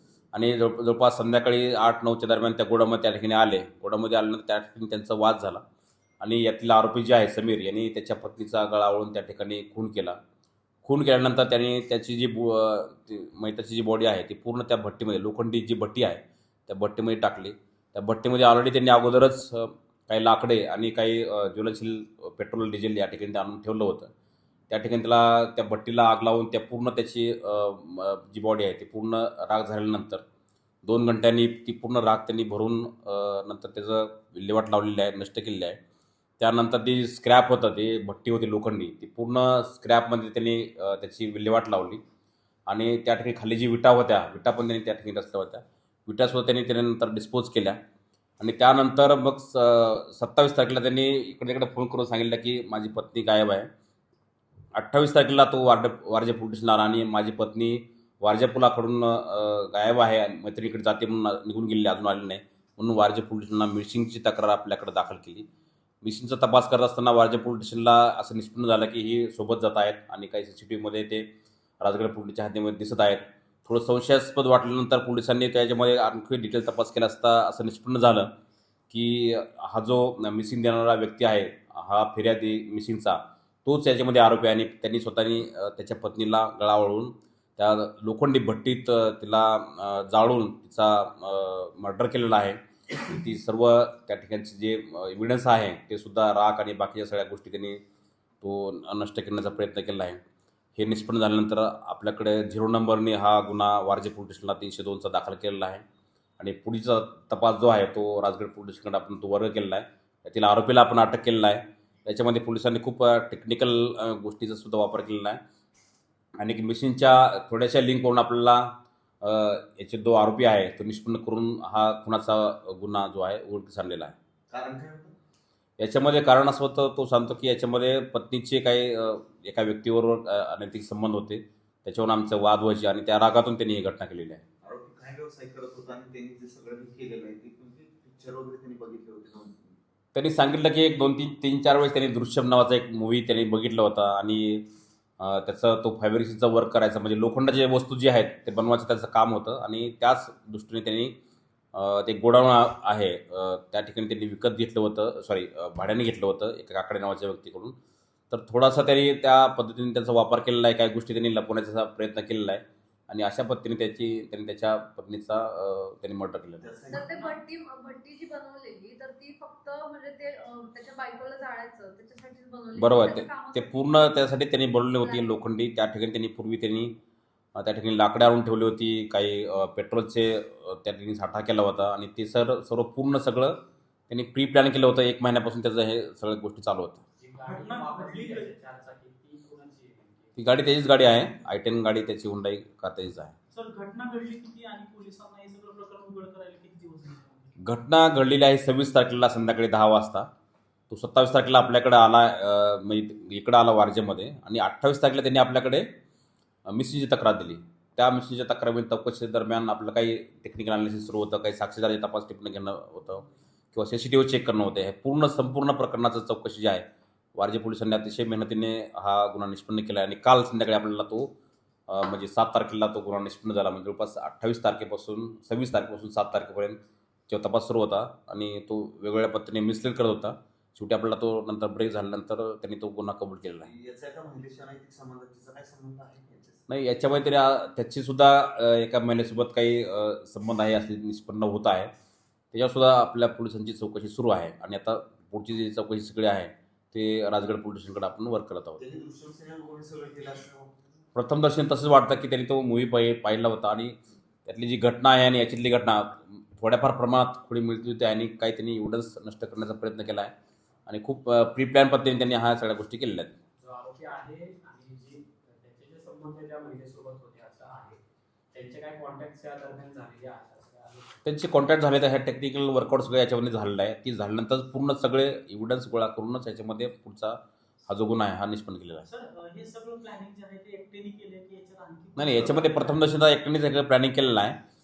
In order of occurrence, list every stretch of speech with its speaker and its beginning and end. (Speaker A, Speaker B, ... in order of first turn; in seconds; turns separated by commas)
Speaker A: 0.3-5.6, Speaker A: 6.2-10.2, Speaker A: 10.8-24.1, Speaker A: 24.7-30.2, Speaker A: 30.8-35.8, Speaker A: 36.4-42.0, Speaker A: 42.7-47.8, Speaker A: 48.4-53.7, Speaker A: 54.8-65.5, Speaker A: 66.0-71.3, Speaker A: 71.8-78.3, Speaker A: 78.9-97.8, Speaker A: 98.4-100.2, Speaker A: 100.8-105.8, Speaker A: 106.4-115.4, Speaker A: 116.4-118.7, Speaker A: 119.2-124.2, Speaker B: 124.5-125.1, Speaker A: 125.8-134.4, Speaker B: 134.6-139.6, Speaker A: 140.1-144.7, Speaker A: 145.2-151.2, Speaker A: 151.7-157.7, Speaker A: 158.3-166.8, Speaker B: 166.6-167.3, Speaker C: 166.9-175.4, Speaker A: 172.8-176.9, Speaker A: 177.6-183.6, Speaker A: 184.1-187.0, Speaker D: 187.2-190.3, Speaker E: 187.4-188.5, Speaker A: 190.3-193.3, Speaker E: 193.5-197.5, Speaker A: 197.6-200.3, Speaker A: 200.9-205.9, Speaker A: 206.7-221.3, Speaker A: 221.9-233.7, Speaker B: 233.5-236.6, Speaker A: 236.7-241.9, Speaker A: 242.5-248.8, Speaker B: 248.8-250.8, Speaker A: 251.1-260.3, Speaker A: 260.9-263.4, Speaker D: 263.6-268.0, Speaker D: 268.5-271.1, Speaker A: 271.2-279.1, Speaker E: 279.0-282.9, Speaker A: 282.1-284.6